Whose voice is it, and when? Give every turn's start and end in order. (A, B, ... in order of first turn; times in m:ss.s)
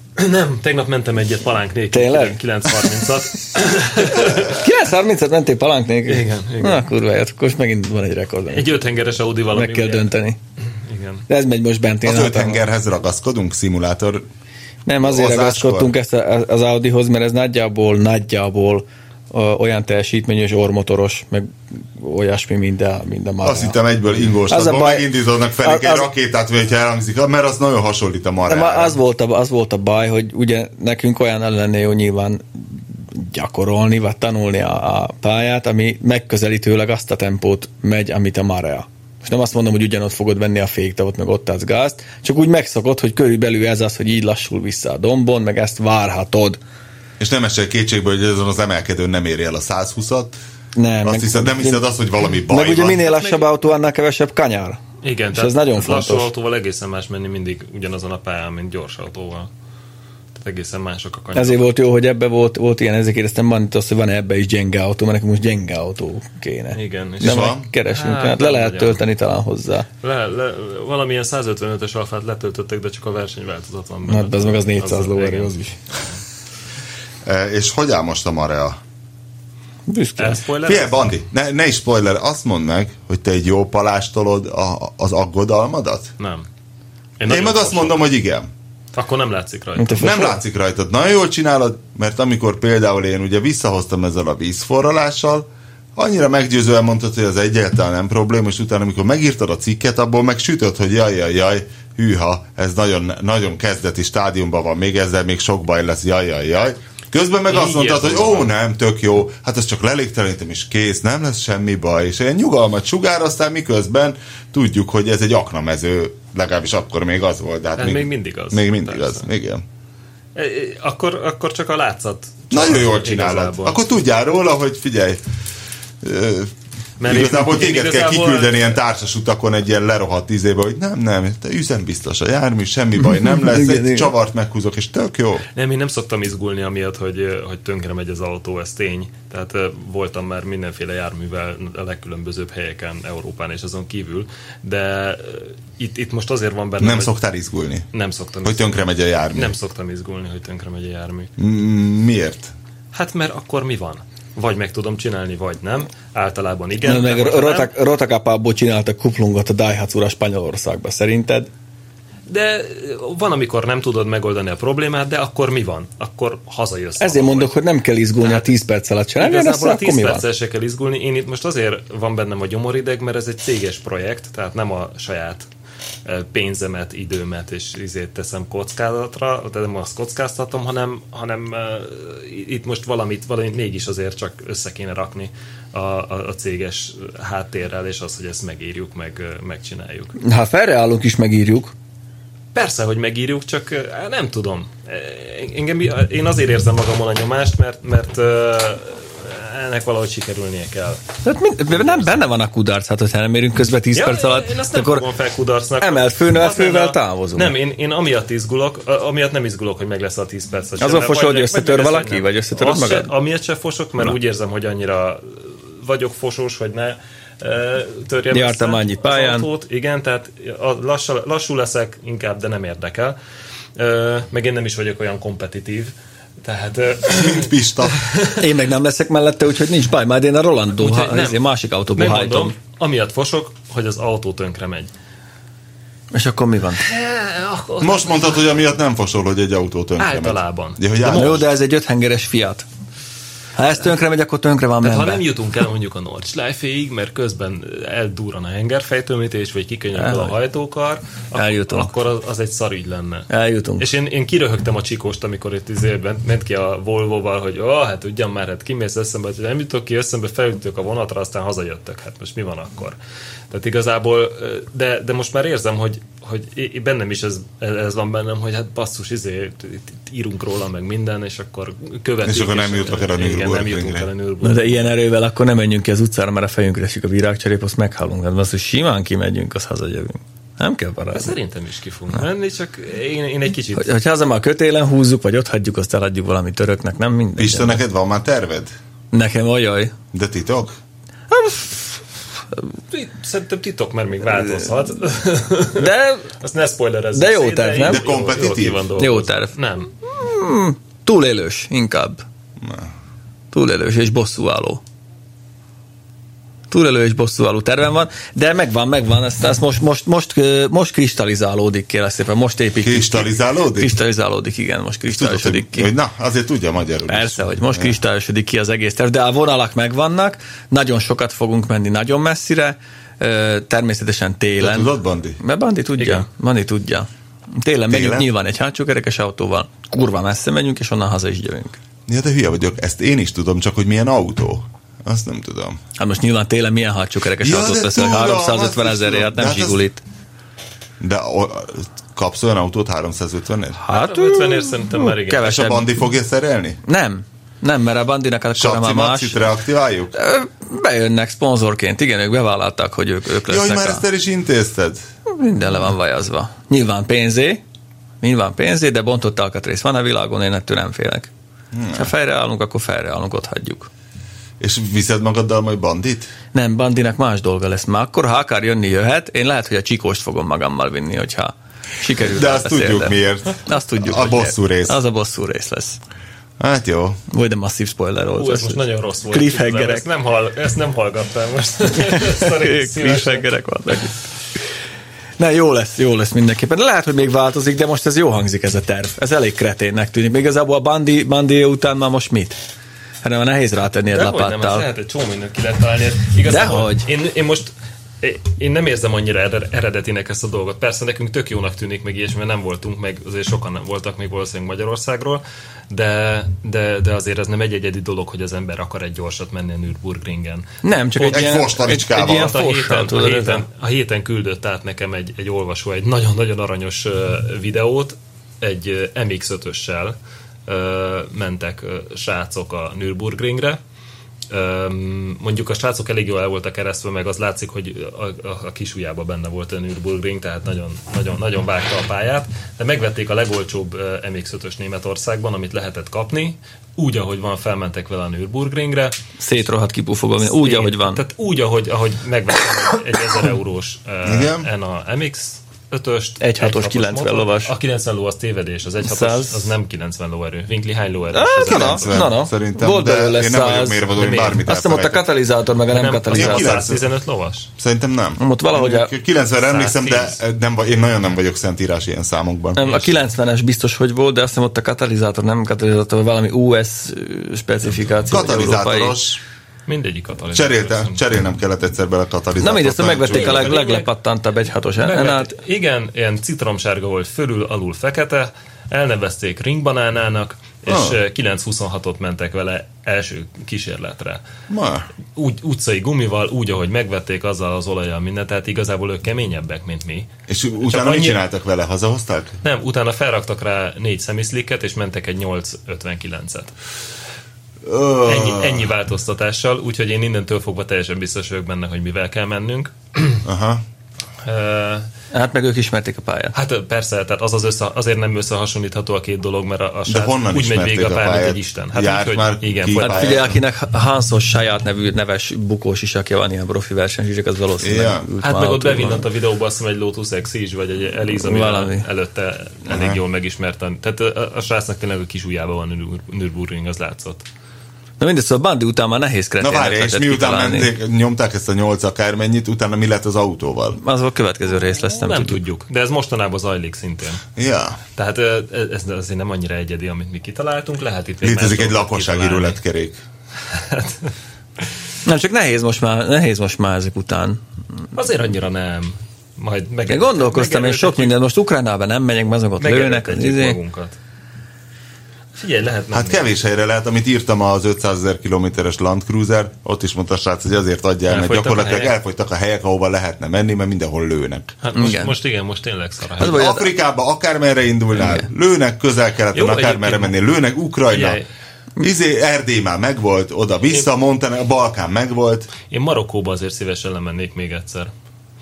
0:00.2-0:04.6 A
0:01.9-0:02.4 B
0:04.3-0:08.7 B
0:06.1-0:06.9 A
0:08.5-0:10.1 A
0:09.5-0:10.4 B
0:10.8-0:11.3 A
0:11.3-0:12.6 B
0:12.0-0:14.2 C
0:14.9-0:23.8 B
0:15.0-0:15.9 C
0:23.4-0:29.0 C
0:24.5-0:25.1 B
0:25.6-0:26.1 B
0:28.5-0:46.6 B
0:47.2-0:50.4 C
0:50.8-0:51.8 B
0:51.0-0:53.0 C
0:52.5-0:54.8 B
0:53.0-0:53.5 A
0:55.0-0:59.5 A
0:55.3-0:56.3 B
1:00.3-1:01.7 A
1:01.4-1:09.9 B
1:06.7-1:09.0 A
1:07.2-1:07.7 C
1:10.0-1:16.2 A
1:14.1-1:15.8 B
1:17.2-1:18.8 C
1:19.9-1:20.4 B
1:20.2-1:21.1 A
1:20.6-1:26.1 C
1:26.2-1:26.4 A
1:27.2-1:28.0 A
1:27.3-1:28.5 C
1:28.9-1:30.4 A
1:29.8-1:30.3 B
1:30.0-1:59.6 C
1:47.5-1:48.5 A
1:57.8-1:59.3 A
2:00.4-2:03.8 A
2:02.5-2:05.2 C
2:06.0-2:06.5 C
2:07.0-2:08.8 A
2:07.0-2:15.4 C
2:13.0-2:14.1 B
2:15.6-2:27.1 A
2:26.8-2:27.9 C
2:27.9-2:31.3 A
2:28.4-2:29.5 C
2:31.4-2:32.5 C
2:32.9-2:37.7 A
2:36.8-2:41.5 B
2:42.3-2:47.6 A
2:47.0-2:50.2 B
2:48.2-2:48.6 A
2:49.2-2:55.5 A
2:56.0-3:10.2 A
3:10.2-3:11.7 B
3:12.5-3:21.0 A
3:21.2-3:25.0 B
3:21.7-3:22.1 A
3:23.9-3:43.2 A
3:25.8-3:27.5 B
3:30.8-3:33.1 B
3:38.3-3:39.5 B
3:43.8-3:48.4 A
3:47.1-3:48.0 C
3:48.4-3:52.6 B
3:50.8-3:51.4 A
3:52.0-3:54.9 A
3:56.1-3:56.8 B
3:56.8-3:58.6 A
3:57.8-4:01.4 C
4:00.0-4:01.5 A
4:01.1-4:02.7 B
4:03.6-4:05.2 B
4:04.8-4:23.0 A
4:10.0-4:10.3 B
4:11.4-4:11.9 B
4:13.3-4:13.9 B
4:23.5-4:34.8 A
4:32.2-4:34.1 C
4:34.4-4:41.3 B
4:41.1-4:43.9 A
4:43.8-4:47.8 B
4:47.4-4:48.7 C
4:49.1-4:49.9 B
4:50.1-4:50.8 C
4:51.3-4:52.0 B
4:52.9-4:59.9 A
4:55.8-4:56.3 B
4:57.2-4:58.0 B
4:57.8-4:58.9 C
4:59.0-5:02.2 B
5:02.6-5:02.9 C
5:03.5-5:04.8 B
5:06.7-5:15.9 B
5:12.8-5:14.0 C
5:15.1-5:18.0 C
5:17.1-5:27.1 B
5:24.6-5:25.4 C
5:26.0-5:26.3 A
5:27.6-5:31.8 B
5:27.9-5:28.3 C
5:32.1-5:35.8 C
5:36.0-5:40.0 B
5:37.4-5:39.8 C
5:41.0-5:43.8 C
5:43.8-5:45.9 B
5:43.9-5:45.7 A
5:45.4-5:46.8 C
5:46.8-5:49.5 B
5:48.6-5:50.2 C
5:50.1-5:54.0 B
5:53.5-5:55.0 C
5:55.3-5:57.6 B
5:58.2-6:01.3 B
6:01.7-6:02.1 C
6:01.9-6:03.9 B
6:04.6-6:06.3 C
6:06.5-6:16.0 B
6:12.2-6:15.0 C
6:16.6-6:17.2 C
6:17.3-6:20.0 B
6:18.4-6:23.4 A
6:22.0-6:24.2 B
6:25.4-6:32.6 B
6:33.2-6:34.9 B
6:34.1-6:51.6 A
6:36.4-6:37.1 B
6:50.8-6:53.6 B
6:51.2-6:52.6 C
6:52.1-7:00.2 A
7:00.7-7:03.8 A
7:04.5-7:19.2 A
7:19.4-7:21.2 B
7:20.4-7:32.3 A
7:24.2-7:24.7 C
7:26.4-7:27.7 B
7:29.0-7:29.7 B
7:31.3-7:34.1 B
7:31.6-7:35.3 C
7:34.2-7:34.6 A
7:34.7-7:36.8 B
7:35.9-7:37.7 A
7:36.3-7:37.1 C
7:37.8-7:42.9 C
7:38.4-7:39.1 B
7:39.6-7:40.4 A
7:42.8-7:49.2 B
7:48.3-7:49.4 C
7:49.9-7:51.2 A
7:50.5-7:53.8 C
7:52.6-7:55.6 B
7:53.3-7:54.1 A
7:55.0-8:04.4 A
8:00.9-8:01.2 C
8:04.7-8:05.1 C
8:05.4-8:10.3 A
8:10.5-8:12.6 C
8:10.8-8:11.4 A
8:12.6-8:16.7 A
8:17.8-8:18.9 C
8:18.3-8:23.4 A
8:23.4-8:23.8 C
8:24.4-8:25.1 A
8:25.3-8:26.5 B
8:26.6-8:33.4 A
8:30.1-8:33.6 C
8:33.0-8:39.3 B
8:37.8-8:38.3 C
8:38.4-8:47.4 A
8:41.4-8:42.0 B
8:42.9-8:43.2 C
8:48.2-8:50.9 B
8:49.6-8:54.0 C
8:54.0-8:55.6 B
8:55.0-8:57.4 A
8:57.6-8:58.0 C
8:58.2-9:02.8 A
9:01.4-9:03.2 C
9:03.7-9:04.3 A
9:05.2-9:07.6 B
9:08.1-9:11.4 A
9:10.1-9:13.8 B
9:12.8-9:14.2 A
9:15.6-9:16.5 A
9:16.1-9:24.8 C
9:21.3-9:22.2 A
9:24.8-9:26.7 A
9:24.9-9:25.4 B
9:26.4-9:26.9 B
9:26.4-9:31.4 C
9:28.2-9:28.5 B
9:29.5-9:30.4 A
9:31.1-9:31.5 A
9:32.0-9:35.7 C
9:35.9-9:38.1 A